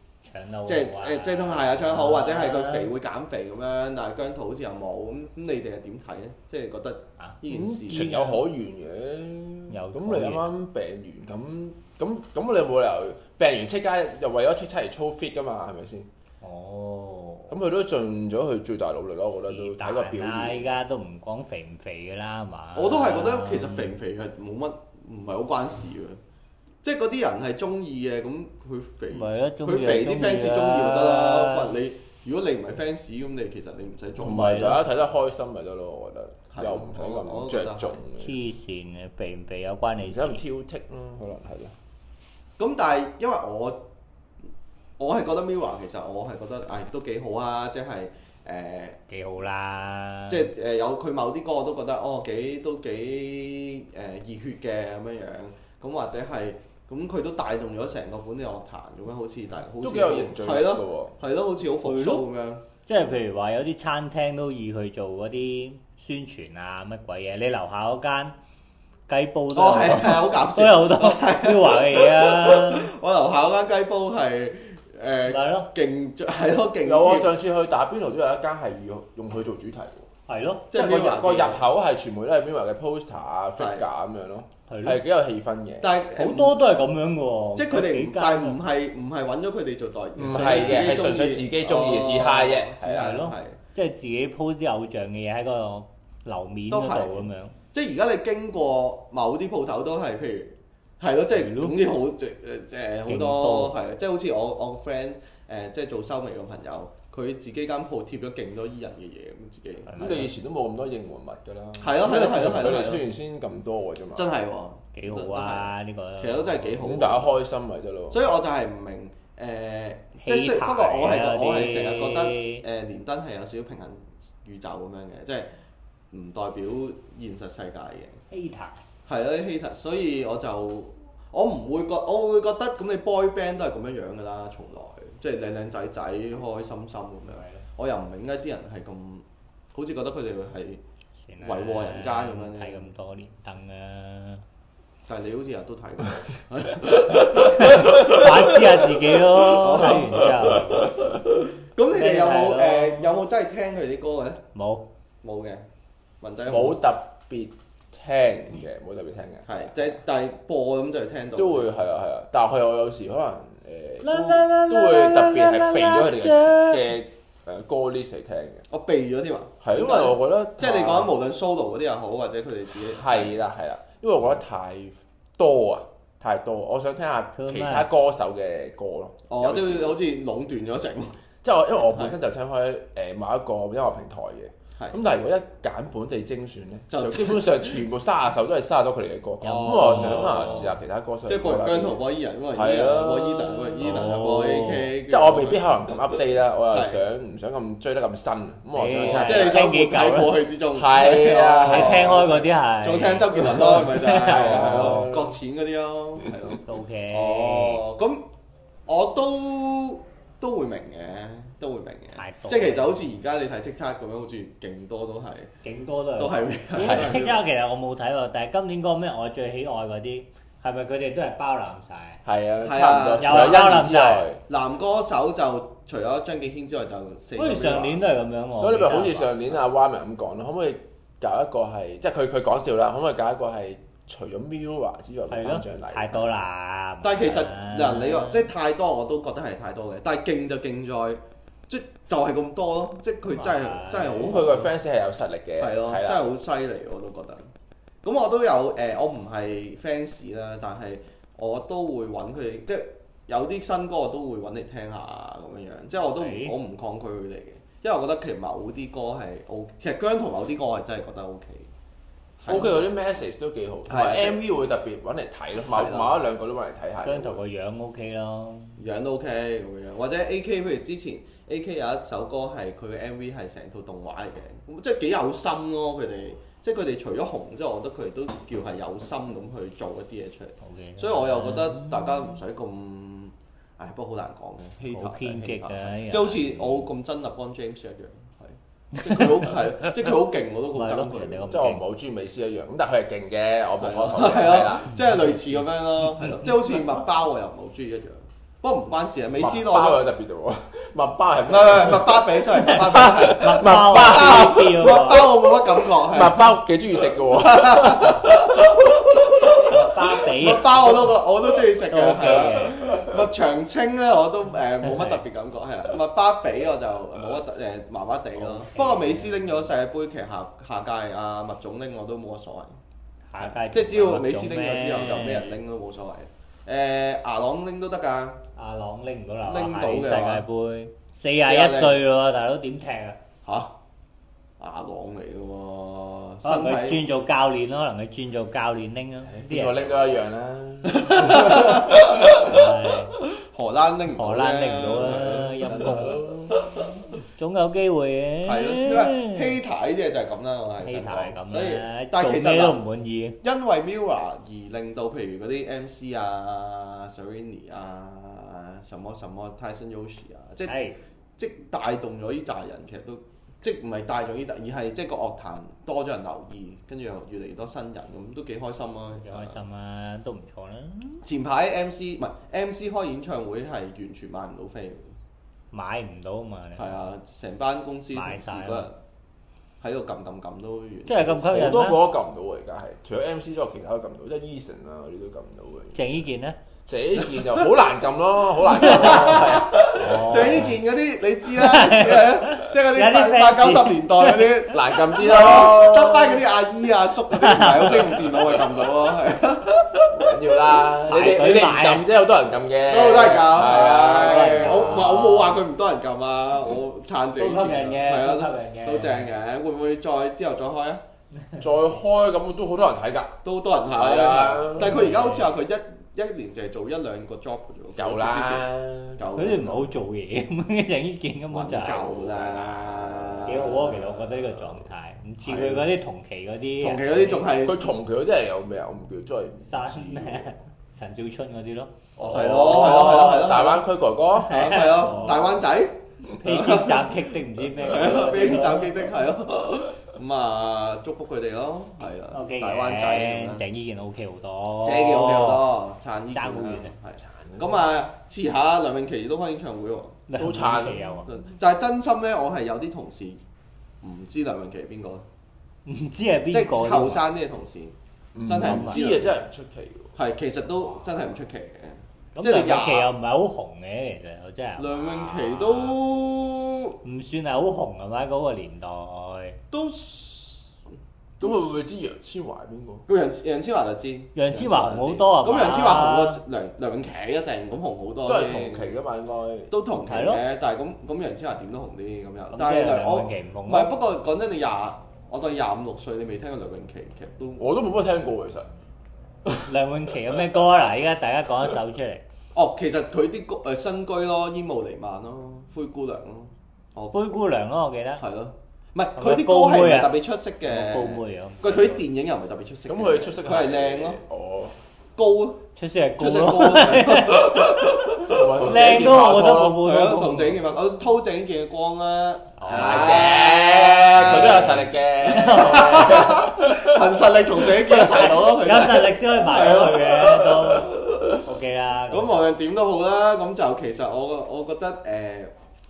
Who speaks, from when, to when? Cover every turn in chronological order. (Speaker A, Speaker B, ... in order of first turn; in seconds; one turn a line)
Speaker A: 0.2-2.9
Speaker B: 0.7-8.1
Speaker C: 7.5-16.1
Speaker A: 7.9-8.4
Speaker A: 9.7-10.4
Speaker A: 16.4-17.5
Speaker C: 17.5-20.7
Speaker A: 19.4-23.9
Speaker B: 22.7-26.2
Speaker B: 26.8-34.8
Speaker A: 29.1-31.7
Speaker C: 34.2-38.4
Speaker A: 34.2-34.8
Speaker B: 36.5-38.0
Speaker A: 38.2-40.4
Speaker C: 40.0-41.8
Speaker B: 42.6-43.8
Speaker B: 45.0-49.0
Speaker A: 49.1-50.5
Speaker B: 50.3-62.6
Speaker C: 59.8-61.2
Speaker A: 61.8-62.2
Speaker A: 62.9-68.4
Speaker A: 69.1-72.9
Speaker B: 69.5-77.3
Speaker A: 75.3-75.7
Speaker C: 76.8-80.1
Speaker A: 80.3-80.7
Speaker B: 80.7-81.7
Speaker C: 80.7-85.9
Speaker B: 83.6-83.8
Speaker A: 84.7-85.0
Speaker B: 85.8-86.6
Speaker A: 86.1-88.6
Speaker B: 87.5-93.6
Speaker C: 90.2-93.2
Speaker A: 90.3-90.9
Speaker A: 92.8-97.5
Speaker B: 96.7-109.9
Speaker A: 101.3-101.8
Speaker A: 103.1-103.7
Speaker A: 109.9-110.3
Speaker C: 110.0-114.3
Speaker B: 111.8-113.0
Speaker B: 114.2-117.3
Speaker A: 114.9-116.7
Speaker C: 116.8-118.3
Speaker B: 118.1-125.5
Speaker A: 120.2-122.6
Speaker B: 126.1-128.2
Speaker A: 128.3-128.9
Speaker B: 129.1-140.8
Speaker A: 137.3-137.6
Speaker A: 141.2-144.4
Speaker B: 141.4-142.9
Speaker B: 145.1-148.6
Speaker A: 147.3-151.0
Speaker B: 149.4-154.4
Speaker A: 151.9-153.2
Speaker A: 154.5-154.9
Speaker B: 155.2-155.6
Speaker B: 156.2-156.8
Speaker C: 156.4-159.6
Speaker B: 159.4-161.7
Speaker C: 161.3-168.6
Speaker A: 164.0-166.9
Speaker B: 168.7-173.3
Speaker C: 169.6-171.1
Speaker C: 172.9-180.0
Speaker A: 177.3-177.9
Speaker B: 179.3-181.2
Speaker C: 181.4-192.0
Speaker B: 181.9-182.2
Speaker B: 186.9-187.8
Speaker A: 189.4-190.7
Speaker B: 189.4-190.7
Speaker B: 191.2-196.0
Speaker C: 192.5-194.0
Speaker A: 193.8-194.9
Speaker C: 195.1-199.7
Speaker B: 196.7-197.0
Speaker A: 198.7-200.4
Speaker B: 199.0-208.2
Speaker C: 200.7-202.3
Speaker A: 201.7-205.1
Speaker C: 204.0-205.3
Speaker A: 206.6-207.8
Speaker B: 208.9-215.5
Speaker A: 212.1-213.0
Speaker A: 215.6-222.2
Speaker B: 216.2-217.3
Speaker C: 216.8-217.2
Speaker C: 222.2-224.4
Speaker B: 222.6-223.7
Speaker A: 223.2-224.3
Speaker B: 224.5-228.0
Speaker A: 227.4-229.3
Speaker C: 228.6-236.3
Speaker A: 235.3-238.5
Speaker B: 237.0-244.7
Speaker A: 243.2-244.5
Speaker C: 244.2-246.2
Speaker B: 245.6-247.5
Speaker B: 248.0-261.7
Speaker A: 256.1-256.5
Speaker B: 262.4-263.0
Speaker C: 262.5-267.4
Speaker B: 263.9-264.4
Speaker B: 265.6-266.2
Speaker A: 267.0-268.8
Speaker B: 268.8-291.5
Speaker A: 280.6-282.4
Speaker A: 284.9-286.9
Speaker A: 288.9-289.9
Speaker A: 290.7-291.8
Speaker C: 291.5-294.9
Speaker B: 293.8-300.0
Speaker C: 299.4-305.0
Speaker B: 301.5-306.6
Speaker A: 302.6-305.3
Speaker C: 305.8-309.5
Speaker B: 307.1-322.8
Speaker A: 309.7-311.0
Speaker A: 311.9-312.8
Speaker C: 312.9-313.2
Speaker A: 314.8-315.2
Speaker A: 318.4-319.7
Speaker A: 323.3-325.6
Speaker B: 323.4-328.4
Speaker A: 328.6-333.2
Speaker B: 329.4-330.4
Speaker B: 331.4-332.0
Speaker B: 333.4-333.7
Speaker B: 334.6-337.0
Speaker A: 336.4-340.1
Speaker C: 339.2-342.5
Speaker B: 340.8-342.6
Speaker A: 342.4-343.1
Speaker B: 343.2-346.9
Speaker A: 344.1-346.2
Speaker C: 345.1-346.8
Speaker A: 347.3-349.5
Speaker B: 348.4-352.8
Speaker A: 350.8-353.4
Speaker B: 353.4-360.8
Speaker A: 360.6-361.0
Speaker B: 361.4-369.6
Speaker A: 369.2-371.2
Speaker B: 371.2-375.1
Speaker A: 375.7-377.0
Speaker B: 376.8-378.9
Speaker A: 378.1-378.9
Speaker B: 379.8-381.7
Speaker A: 381.1-382.0
Speaker C: 381.5-386.0
Speaker A: 385.9-386.6
Speaker C: 386.9-390.6
Speaker B: 387.2-387.7
Speaker A: 388.7-390.8
Speaker B: 388.8-400.2
Speaker A: 391.5-394.5
Speaker C: 394.7-396.4
Speaker A: 397.4-398.2
Speaker C: 398.1-398.8
Speaker C: 400.1-405.2
Speaker A: 401.1-402.0
Speaker B: 402.9-411.0
Speaker A: 403.6-405.6
Speaker A: 407.4-409.3
Speaker C: 411.6-413.4
Speaker B: 413.4-419.9
Speaker C: 413.9-415.1
Speaker A: 414.8-415.6
Speaker C: 418.0-419.2
Speaker A: 419.3-422.1
Speaker B: 421.5-424.0
Speaker C: 422.2-423.8
Speaker A: 423.4-427.5
Speaker B: 425.4-425.9
Speaker B: 426.8-427.8
Speaker C: 427.6-430.5
Speaker A: 429.6-433.3
Speaker B: 432.2-433.8
Speaker C: 432.2-434.9
Speaker A: 434.4-435.5
Speaker B: 434.5-437.2
Speaker A: 436.3-439.0
Speaker B: 437.8-443.6
Speaker A: 442.3-445.7
Speaker B: 444.8-450.2
Speaker A: 446.3-446.9
Speaker C: 447.2-447.8
Speaker A: 450.3-451.3
Speaker C: 450.4-451.2
Speaker B: 451.3-453.4
Speaker B: 454.0-455.2
Speaker A: 455.9-457.2
Speaker B: 456.5-457.9
Speaker C: 458.3-460.1
Speaker B: 458.4-459.4
Speaker A: 458.6-459.0
Speaker B: 460.1-463.1
Speaker A: 462.4-466.0
Speaker B: 464.8-467.0
Speaker A: 467.0-469.6
Speaker B: 469.7-470.6
Speaker B: 471.4-471.7
Speaker C: 471.4-473.1
Speaker B: 473.1-478.9
Speaker A: 474.3-476.4
Speaker C: 478.2-479.7
Speaker B: 479.7-487.6
Speaker A: 480.0-480.4
Speaker A: 482.5-483.9
Speaker C: 487.6-488.7
Speaker A: 489.6-492.2
Speaker B: 492.5-497.2
Speaker A: 497.1-498.2
Speaker B: 498.2-504.2
Speaker A: 499.2-502.0
Speaker C: 502.9-504.8
Speaker B: 505.1-505.6
Speaker A: 505.8-507.7
Speaker B: 506.2-509.1
Speaker C: 508.3-509.8
Speaker A: 508.6-510.6
Speaker B: 509.7-521.4
Speaker A: 512.6-513.5
Speaker C: 512.6-517.7
Speaker A: 514.2-514.6
Speaker A: 515.2-516.4
Speaker A: 517.9-522.4
Speaker B: 522.1-525.5